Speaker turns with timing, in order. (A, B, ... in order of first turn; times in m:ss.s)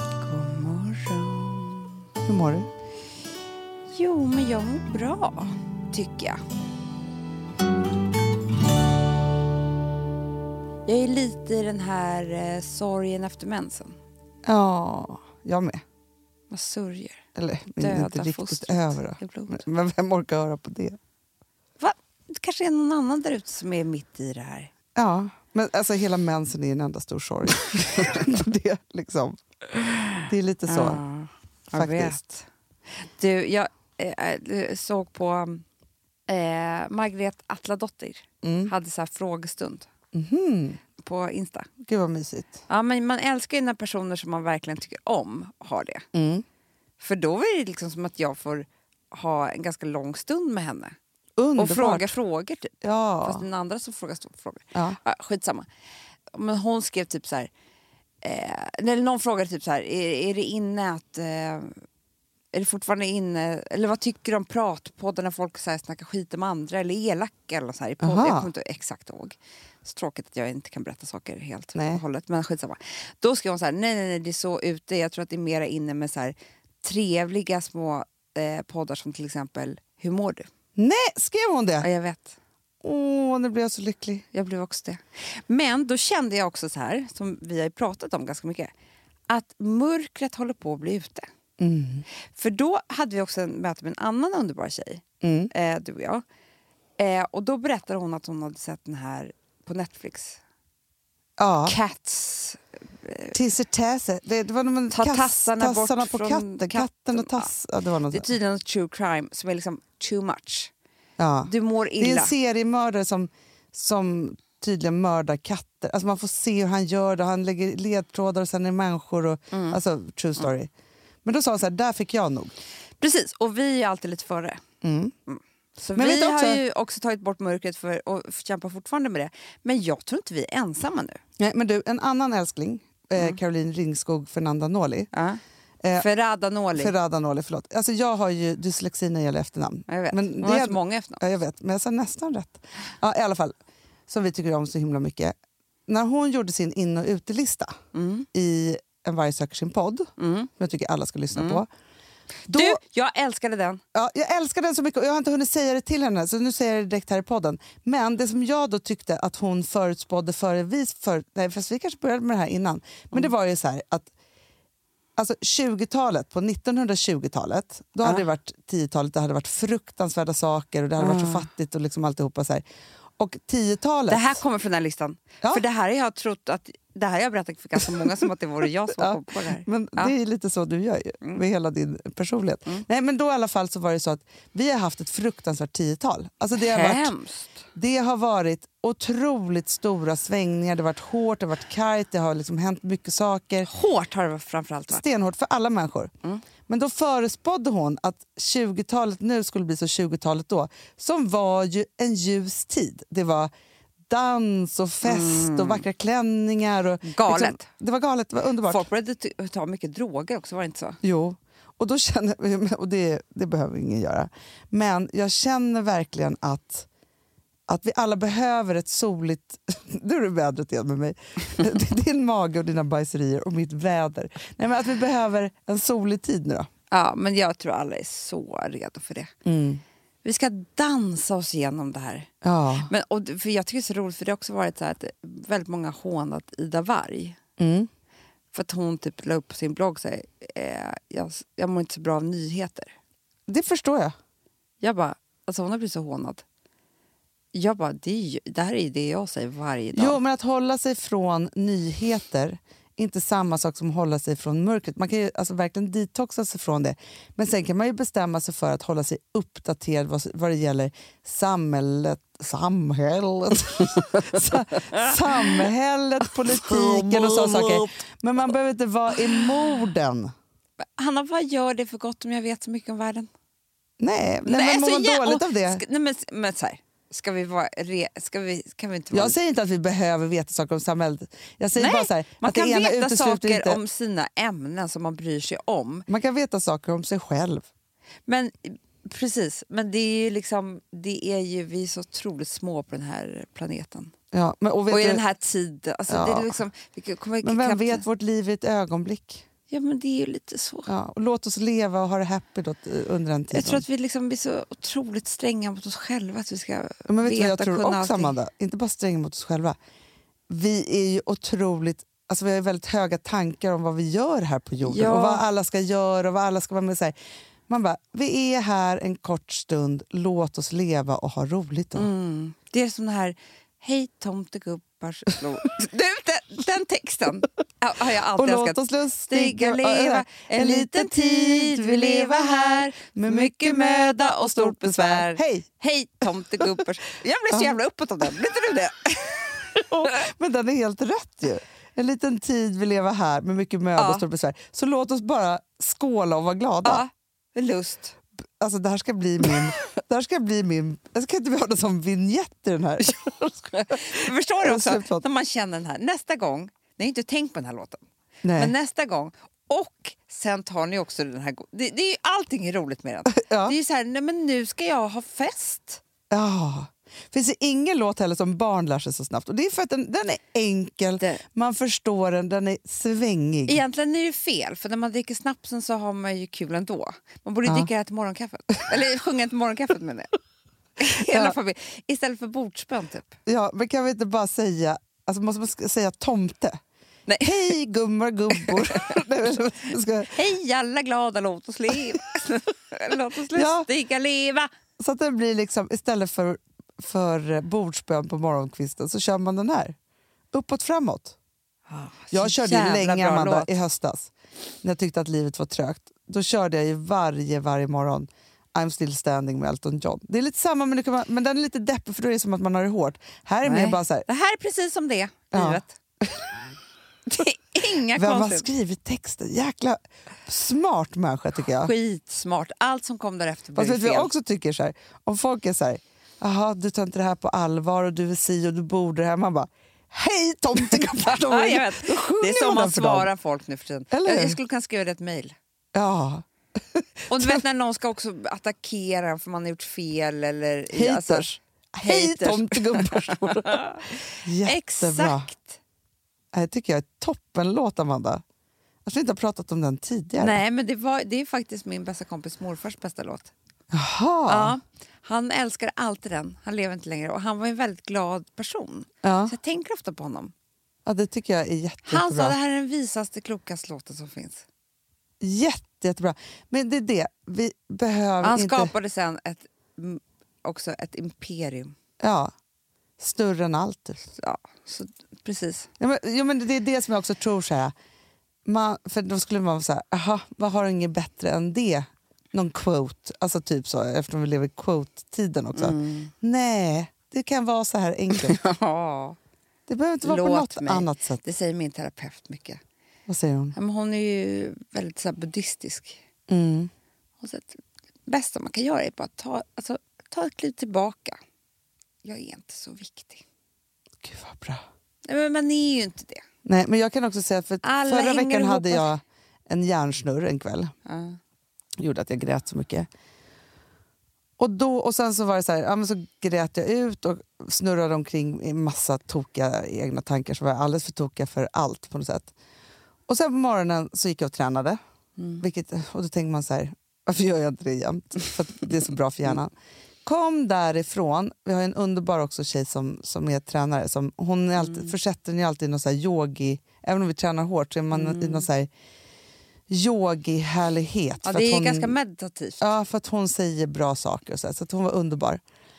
0:00.2-0:02.0 A
0:02.2-0:02.7 B
0:03.9-0:06.4 A
0:10.8-0:14.0 A
0:14.4-0:15.8 B
0:16.5-0:17.2 A
0:17.3-0:21.0 B
0:17.8-0:19.6 A
0:21.8-0:24.7 A
0:25.0-0:29.4 B
0:30.2-0:31.0 B
0:30.7-0:32.5 A
0:31.7-0:32.2 B
0:33.0-0:35.6 A
0:36.3-0:39.9 A
0:38.4-0:38.7 B
0:40.1-0:40.8 B
0:41.0-0:41.7 A
0:41.8-0:42.6 B
0:42.7-0:46.0 A
0:46.1-0:46.4 B
0:47.0-0:50.9 A
0:51.4-0:52.1 B
0:51.6-0:55.7 A
0:52.8-0:53.5 B
0:54.7-0:55.0 B
0:56.3-0:57.5 A
0:58.2-1:01.8 A
1:02.5-1:20.5 A
1:08.0-1:08.5 B
1:11.7-1:12.0 B
1:20.8-1:21.9 B
1:21.8-1:22.4 A
1:22.8-1:24.2 B
1:24.3-1:28.7 A
1:29.3-1:31.3 A
1:31.6-1:32.0 B
1:32.3-1:36.2 A
1:35.2-1:35.5 B
1:37.0-1:40.4 A
1:41.4-1:41.8 B
1:41.6-1:43.4 A
1:43.3-1:48.3 B
1:44.9-1:47.5 A
1:48.1-1:50.7 A
1:51.2-2:00.7 B
1:51.4-1:52.3 A
1:59.5-1:59.8 A
2:01.2-2:02.5 B
2:03.0-2:04.6 A
2:04.8-2:05.1 B
2:05.3-2:11.2 A
2:06.0-2:06.6 B
2:11.4-2:15.1 B
2:15.1-2:15.4 A
2:15.8-2:16.1 B
2:16.0-2:16.9 A
2:16.7-2:23.5 B
2:19.9-2:21.2 A
2:24.1-2:25.3 B
2:25.9-2:27.7 B
2:27.9-2:28.3 A
2:28.3-2:31.7 B
2:30.2-2:30.5 A
2:31.3-2:31.6 A
2:32.5-2:32.8 B
2:32.5-2:33.8 A
2:33.9-2:44.1 B
2:45.2-2:52.6 B
2:51.0-2:51.5 A
2:53.2-2:54.4 B
2:54.1-3:00.1 A
2:58.9-3:07.1 B
3:06.6-3:07.6 A
3:07.7-3:13.7 B
3:13.7-3:15.0 A
3:14.9-3:16.1 B
3:16.7-3:23.5 B
3:24.1-3:28.8 B
3:25.0-3:25.8 A
3:27.0-3:27.6 A
3:28.6-3:31.0 A
3:31.0-3:36.9 B
3:37.7-3:46.7 B
3:46.9-3:49.3 A
3:49.4-3:49.8 B
3:50.2-3:52.3 A
3:52.4-3:52.9 B
3:52.8-3:57.4 A
3:57.6-3:57.9 B
3:58.5-4:02.9 A
4:03.5-4:04.1 B
4:04.8-4:06.4 A
4:07.5-4:10.2 A
4:09.9-4:30.3 B
4:24.9-4:25.6 A
4:26.6-4:27.9 A
4:30.8-4:33.3 A
4:34.0-4:35.8 B
4:34.4-4:39.4 A
4:39.1-4:43.8 B
4:41.7-4:46.1 A
4:46.1-4:47.6 B
4:48.3-4:54.1 A
4:54.3-4:55.2 B
4:54.9-4:58.0 A
4:56.1-4:56.6 B
4:57.4-4:59.4 B
4:59.7-5:00.9 A
5:00.8-5:03.8 B
5:03.5-5:08.4 A
5:07.0-5:09.8 B
5:10.5-5:17.2 B
5:14.8-5:15.4 A
5:17.7-5:22.1 B
5:21.9-5:39.8 A
5:28.3-5:35.6 B
5:37.5-5:37.8 B
5:39.7-5:47.0 B
5:44.0-5:44.2 A
5:46.8-5:48.2 A
5:48.6-5:55.2 B
5:53.0-5:58.0 A
5:58.4-5:58.7 B
5:58.5-6:06.0 A
6:03.3-6:03.8 B
6:06.3-6:13.8 B
6:13.7-6:20.3 A
6:17.6-6:17.9 B
6:21.0-6:23.4 A
6:21.1-6:21.6 B
6:23.4-6:26.8 B
6:27.3-6:27.5 A
6:27.4-6:30.3 B
6:28.5-6:29.2 A
6:30.3-6:34.7 A
6:33.5-6:33.9 B
6:35.0-6:40.0 B
6:40.5-6:41.4 B
6:41.9-6:43.7 A
6:42.3-6:44.3 B
6:44.8-6:54.3 B
6:53.6-6:56.0 A
6:55.5-6:56.4 B
6:57.3-6:58.7 A
6:58.1-7:01.9 B
7:01.6-7:04.3 A
7:03.8-7:13.3 B
7:10.8-7:15.5 A
7:14.1-7:14.6 B
7:15.9-7:17.6 B
7:17.3-7:21.5 A
7:20.9-7:25.5 B
7:22.0-7:25.8 A
7:26.5-7:28.4 B
7:29.0-7:30.6 B
7:30.4-7:33.5 A
7:33.9-7:34.7 B
7:34.5-7:40.5 A
7:39.2-7:39.5 B
7:41.0-7:42.5 B
7:42.0-7:44.6 A
7:45.4-7:48.9 B
7:48.4-7:51.9 A
7:52.2-7:52.5 B
7:53.2-7:54.2 B
7:54.3-7:55.9 A
7:56.0-7:57.9 B
7:58.6-8:08.6 B
8:05.7-8:06.3 A
8:08.3-8:09.4 A
8:09.9-8:11.4 B
8:10.2-8:12.8 A
8:13.3-8:13.8 B
8:13.7-8:16.2 A
8:16.5-8:16.9 B
8:17.4-8:21.4 A
8:22.2-8:23.4 A
8:24.2-8:24.8 B
8:25.2-8:26.4 A
8:26.6-8:30.9 B
8:27.8-8:29.1 A
8:31.0-8:31.4 A
8:32.0-8:33.1 B
8:34.6-8:42.5 B
8:43.3-8:45.0 B
8:45.6-8:49.7 B
8:50.2-8:58.9 B
8:58.1-8:58.7 A
8:59.9-9:02.1 B
9:01.4-9:02.9 A
9:02.8-9:05.6 B